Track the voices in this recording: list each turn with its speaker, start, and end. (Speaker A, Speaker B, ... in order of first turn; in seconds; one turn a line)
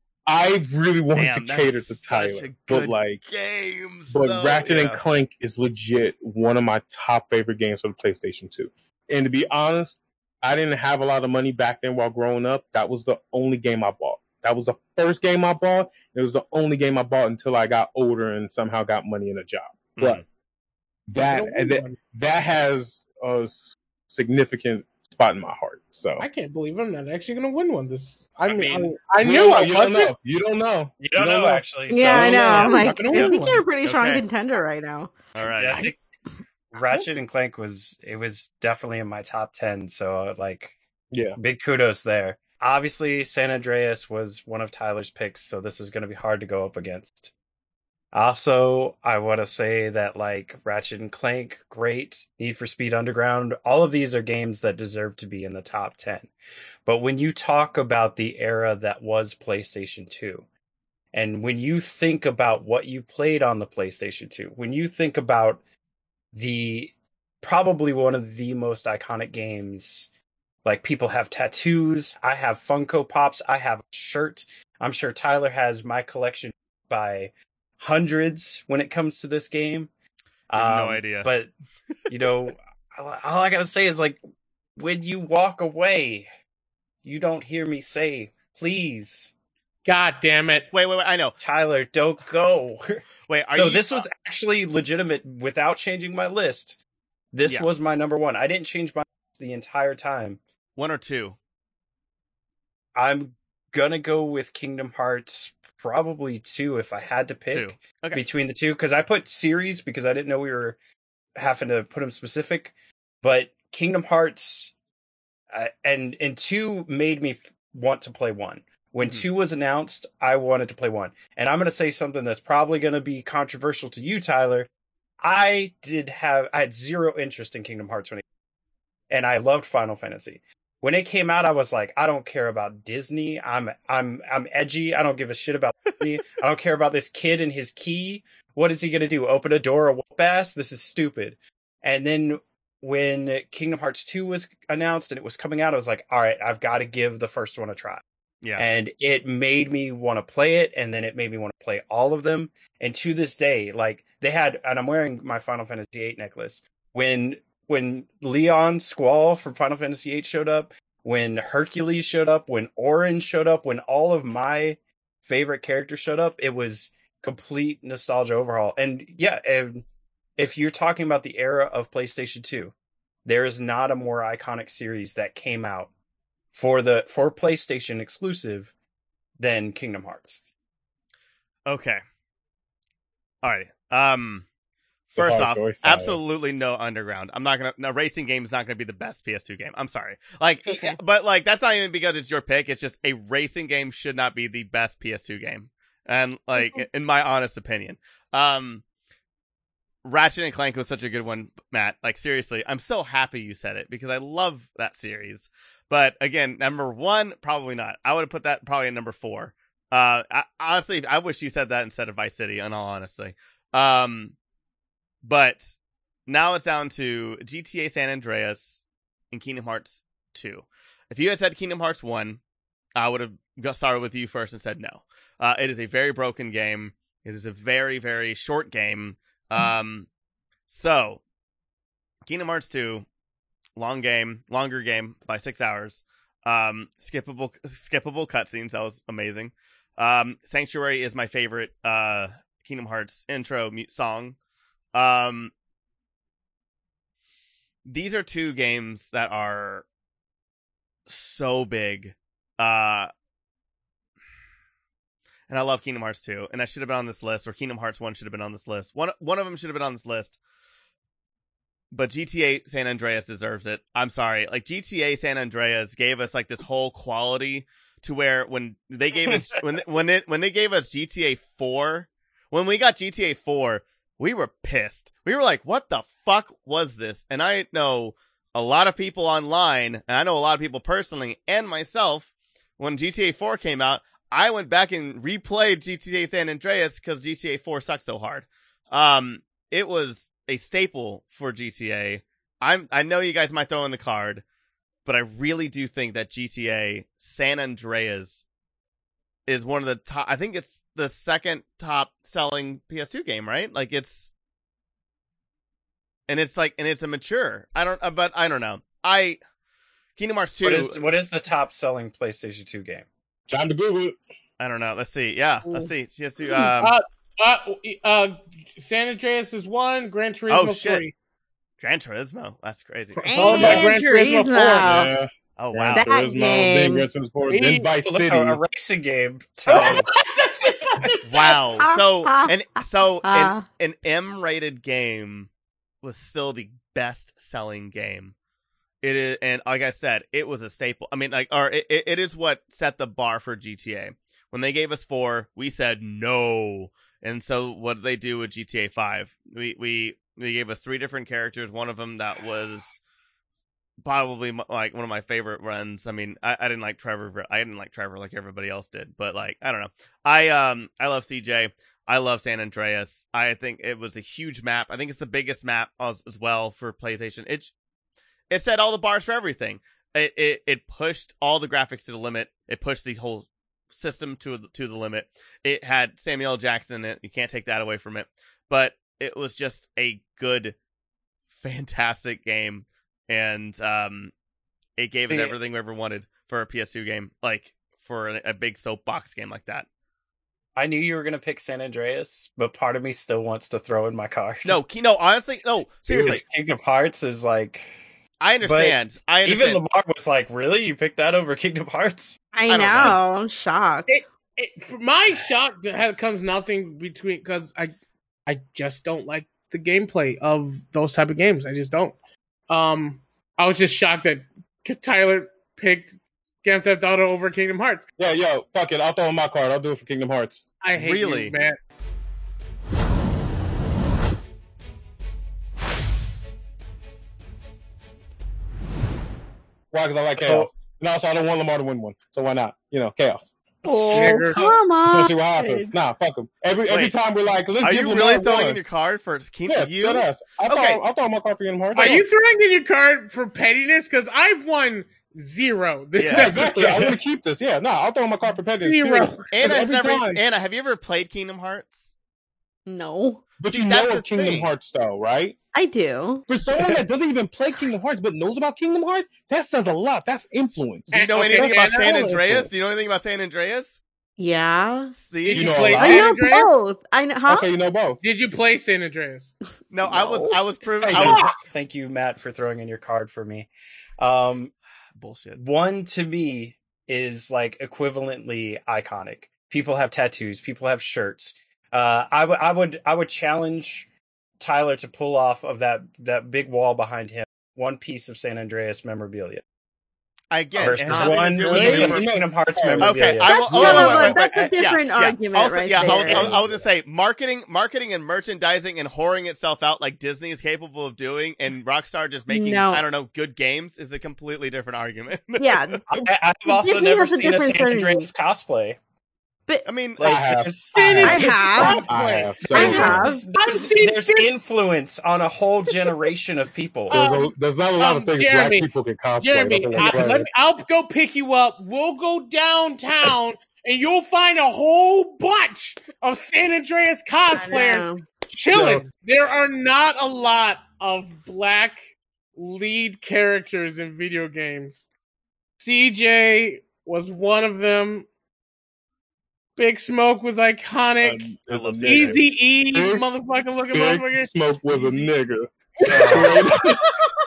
Speaker A: 0.3-3.2
Speaker B: 1.1-5.0
Speaker A: 4.1-20.2
Speaker B: 20.0-20.2
Speaker A: 21.1-26.2
Speaker C: 21.1-22.0
Speaker C: 26.2-30.1
Speaker B: 28.4-28.9
Speaker A: 29.2-32.4
Speaker D: 31.0-33.4
Speaker E: 31.9-35.1
Speaker C: 31.9-33.6
Speaker B: 33.8-34.2
Speaker B: 35.3-35.8
Speaker D: 35.6-36.0
Speaker D: 36.7-40.7
Speaker A: 41.1-41.4
Speaker D: 41.4-47.3
Speaker D: 48.1-56.3
Speaker D: 56.8-60.5
Speaker D: 61.1-65.6
Speaker D: 66.3-70.1
Speaker D: 70.6-79.9
Speaker D: 80.5-81.5
Speaker B: 80.5-81.3
Speaker D: 82.1-84.2
Speaker D: 84.8-86.3
Speaker D: 87.0-89.3
Speaker C: 89.8-90.7
Speaker B: 90.7-91.4
Speaker D: 91.4-96.8
Speaker B: 93.3-94.0
Speaker D: 97.3-100.4
Speaker B: 100.8-101.4
Speaker D: 102.9-110.8
Speaker B: 107.5-108.2
Speaker D: 111.3-114.7
Speaker D: 115.5-124.7
Speaker D: 125.2-128.2
Speaker D: 129.1-148.0
Speaker D: 148.6-169.8
Speaker D: 170.4-172.7
Speaker D: 173.2-175.9
Speaker D: 176.5-178.7
Speaker D: 179.4-180.4
Speaker B: 181.7-182.0
Speaker B: 183.4-184.4
Speaker B: 185.1-198.8
Speaker A: 185.2-186.2
Speaker E: 190.7-191.0
Speaker E: 196.6-196.8
Speaker B: 200.0-214.3
Speaker B: 215.2-215.7
Speaker B: 216.3-222.4
Speaker B: 222.9-230.1
Speaker B: 230.7-231.2
Speaker B: 232.2-233.1
Speaker B: 233.8-244.3
Speaker B: 244.9-245.5
Speaker B: 247.8-249.8
Speaker B: 251.1-253.1
Speaker B: 255.5-260.4
Speaker B: 261.9-294.4
Speaker D: 269.2-269.5
Speaker B: 295.1-298.4
Speaker B: 299.5-304.3
Speaker B: 306.3-309.4
Speaker B: 310.2-311.1
Speaker D: 310.6-313.1
Speaker A: 313.5-314.2
Speaker B: 314.6-316.9
Speaker C: 316.6-321.1
Speaker B: 320.5-321.0
Speaker B: 321.8-323.8
Speaker C: 323.1-325.0
Speaker E: 323.2-325.1
Speaker A: 323.6-323.8
Speaker A: 324.8-328.6
Speaker B: 325.6-326.1
Speaker E: 325.9-327.1
Speaker C: 327.5-327.9
Speaker D: 328.0-331.1
Speaker C: 329.7-331.6
Speaker B: 331.3-335.5
Speaker E: 331.8-333.6
Speaker B: 336.0-338.3
Speaker B: 339.0-353.0
Speaker B: 354.0-367.7
Speaker B: 368.5-380.8
Speaker B: 381.6-384.3
Speaker B: 385.0-389.9
Speaker D: 385.3-385.6
Speaker D: 390.8-394.8
Speaker B: 394.6-396.4
Speaker D: 396.1-397.9
Speaker B: 398.4-399.8
Speaker D: 398.6-402.4
Speaker E: 402.5-404.2
Speaker B: 402.7-403.2
Speaker C: 404.1-407.9
Speaker C: 408.4-412.2
Speaker C: 412.7-418.0
Speaker A: 418.2-420.6
Speaker C: 420.8-421.8
Speaker B: 420.9-421.5
Speaker A: 429.9-434.2
Speaker D: 430.4-430.7
Speaker E: 433.8-435.9
Speaker C: 433.9-434.8
Speaker A: 435.0-438.8
Speaker B: 436.9-437.1
Speaker B: 437.8-441.0
Speaker A: 439.7-442.2
Speaker C: 441.9-447.1
Speaker B: 446.2-446.5
Speaker A: 446.3-450.4
Speaker C: 448.8-449.5
Speaker B: 449.5-452.1
Speaker E: 452.9-453.4
Speaker A: 453.6-455.6
Speaker B: 453.7-454.7
Speaker E: 455.7-456.4
Speaker A: 456.5-462.4
Speaker C: 461.1-462.6
Speaker B: 461.1-464.0
Speaker E: 464.4-465.1
Speaker B: 465.1-465.8
Speaker C: 465.4-466.8
Speaker A: 465.5-466.2
Speaker E: 466.0-467.7
Speaker A: 467.5-468.2
Speaker C: 468.2-469.5
Speaker B: 469.9-471.5
Speaker E: 470.1-470.6
Speaker A: 471.0-471.4
Speaker C: 471.2-471.6
Speaker D: 471.7-474.7
Speaker B: 475.1-475.6
Speaker D: 475.5-484.1
Speaker D: 484.6-489.6
Speaker B: 490.5-492.3
Speaker D: 490.8-494.8
Speaker C: 491.0-492.1
Speaker A: 491.7-493.2
Speaker B: 493.0-506.0
Speaker E: 493.4-496.6
Speaker D: 496.0-496.9
Speaker E: 502.5-503.0
Speaker E: 505.6-506.0
Speaker D: 506.2-509.0
Speaker E: 506.7-508.3
Speaker B: 509.8-510.4
Speaker D: 510.2-512.0
Speaker A: 510.2-511.2
Speaker C: 510.9-514.5
Speaker E: 511.2-512.0
Speaker A: 512.0-513.3
Speaker D: 512.7-517.2
Speaker E: 512.7-513.4
Speaker C: 517.1-518.9
Speaker A: 517.1-520.5
Speaker C: 519.4-535.0
Speaker D: 519.9-520.4
Speaker E: 527.5-528.2
Speaker A: 528.7-529.1
Speaker C: 535.8-538.3
Speaker C: 539.8-545.3
Speaker A: 541.2-543.2
Speaker B: 541.7-542.4
Speaker A: 543.9-547.0
Speaker C: 546.0-547.2
Speaker D: 546.1-546.5